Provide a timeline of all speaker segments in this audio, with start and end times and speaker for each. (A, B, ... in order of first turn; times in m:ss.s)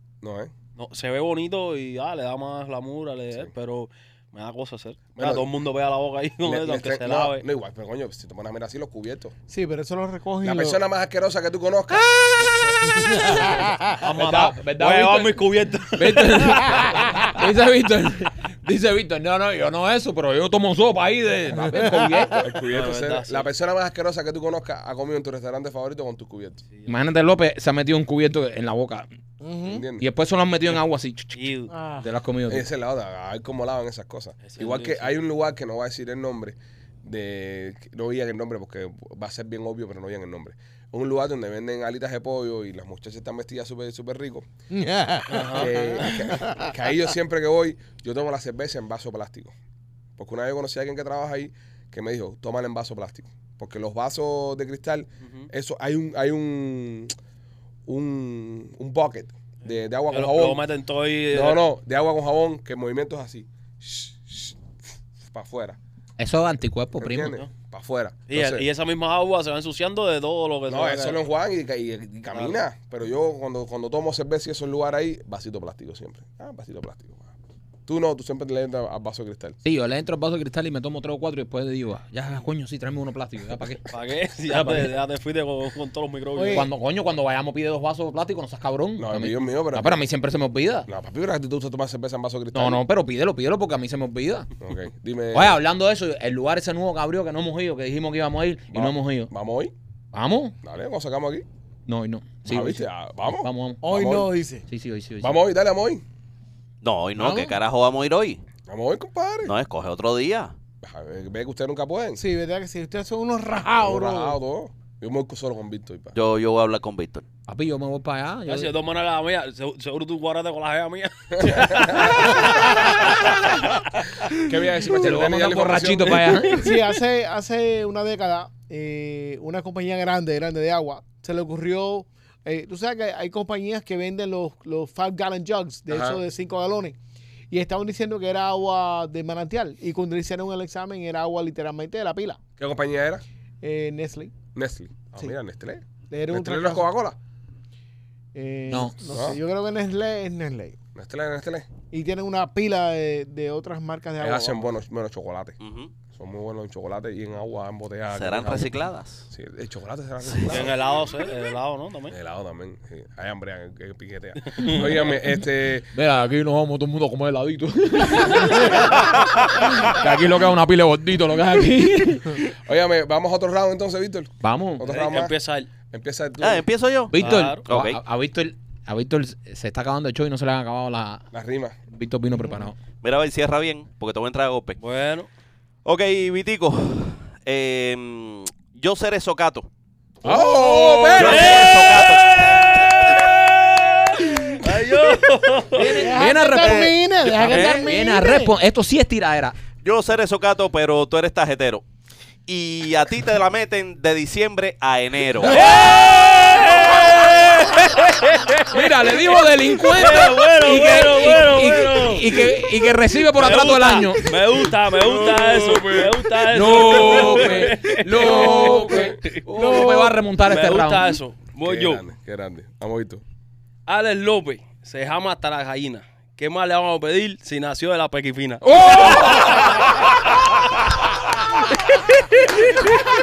0:00.2-0:00.5 A
0:00.8-0:07.4 B
0:05.1-0:05.4 A
0:06.4-0:09.3 A
0:09.5-0:10.8 C
0:10.4-0:12.1 A
0:12.8-0:13.9 C
0:14.0-0:15.4 D
0:14.0-0:17.2 B
0:15.9-0:22.5 D
0:21.7-0:22.4 C
0:22.4-0:26.6 A
0:22.7-0:23.5 B
0:26.8-0:29.1 D
0:29.4-0:29.8 C
0:29.6-0:30.0 A
0:30.0-0:32.7 D
0:31.3-0:31.7 B
0:31.7-0:32.1 C
0:32.5-0:44.4 A
0:34.4-0:35.1 B
0:44.7-0:46.7 C
0:45.3-0:46.0 B
0:45.4-0:49.5 A
0:50.2-0:57.1 A
0:55.2-0:55.5 B
0:57.9-1:00.6 A
1:00.1-1:01.6 B
1:01.3-1:04.6 A
1:05.2-1:05.8 A
1:06.2-1:07.3 D
1:07.0-1:08.6 A
1:08.3-1:11.2 B
1:10.7-1:17.3 A
1:12.3-1:12.6 B
1:17.9-1:19.6 A
1:19.6-1:23.9 D
1:23.9-1:26.7 B
1:24.5-1:24.9 D
1:26.3-1:26.7 C
1:26.5-1:30.9 D
1:29.0-1:30.0 A
1:30.9-1:32.8 A
1:32.5-1:34.5 D
1:34.6-1:35.6 A
1:35.3-1:39.3 D
1:38.7-1:39.7 A
1:40.1-1:40.6 D
1:40.6-1:41.4 A
1:41.9-1:43.8 D
1:42.4-1:44.3 A
1:43.8-1:44.6 C
1:44.7-1:45.4 D
1:45.2-1:46.0 A
1:46.8-1:48.4 E
1:47.2-1:47.6 C
1:48.7-1:49.5 A
1:49.4-1:50.5 E
1:50.8-1:52.2 A
1:52.2-1:54.4 C
1:53.8-1:56.2 A
1:56.1-1:57.2 E
1:57.5-1:58.7 D
1:58.5-2:03.5 B
2:01.3-2:02.2 A
2:04.3-2:06.6 A
2:04.8-2:06.8 D
2:06.6-2:17.0 C
2:15.9-2:16.2 A
2:17.5-2:22.4 C
2:22.6-2:23.2 A
2:23.6-2:24.3 C
2:24.5-2:27.2 A
2:26.1-2:26.9 C
2:28.3-2:30.8 C
2:28.7-2:29.0 D
2:29.1-2:29.4 A
2:30.9-2:31.7 A
2:31.9-2:34.7 C
2:34.2-2:35.6 A
2:35.6-2:35.9 E
2:36.1-2:40.8 A
2:38.1-2:39.2 E
2:40.2-2:40.6 E
2:40.5-2:42.1 B
2:42.1-2:45.9 A
2:44.5-2:44.8 B
2:45.9-2:52.5 D
2:52.6-2:55.3 A
2:54.4-2:54.8 D
2:54.8-2:55.7 B
2:55.9-2:56.6 A
2:56.4-2:58.0 E
2:57.1-3:01.3 D
2:57.2-2:57.6 B
3:01.3-3:01.8 A
3:01.9-3:02.8 D
3:03.0-3:04.8 E
3:04.8-3:05.3 B
3:05.8-3:09.7 E
3:10.2-3:11.9 A
3:10.2-3:11.1 C
3:10.6-3:12.2 D
3:11.1-3:12.7 E
3:11.2-3:16.2 B
3:15.7-3:19.6 D
3:15.8-3:18.5 C
3:17.4-3:17.9 E
3:19.8-3:21.8 E
3:22.5-3:25.8 E
3:25.4-3:26.2 D
3:25.4-3:32.6 B
3:28.7-3:34.4 D
3:33.3-3:42.0 B
3:35.0-3:39.3 A
3:36.5-3:41.2 D
3:39.5-3:40.1 C
3:41.6-3:43.2 A
3:43.9-3:49.1 B
3:48.6-3:49.8 D
3:49.0-3:49.5 A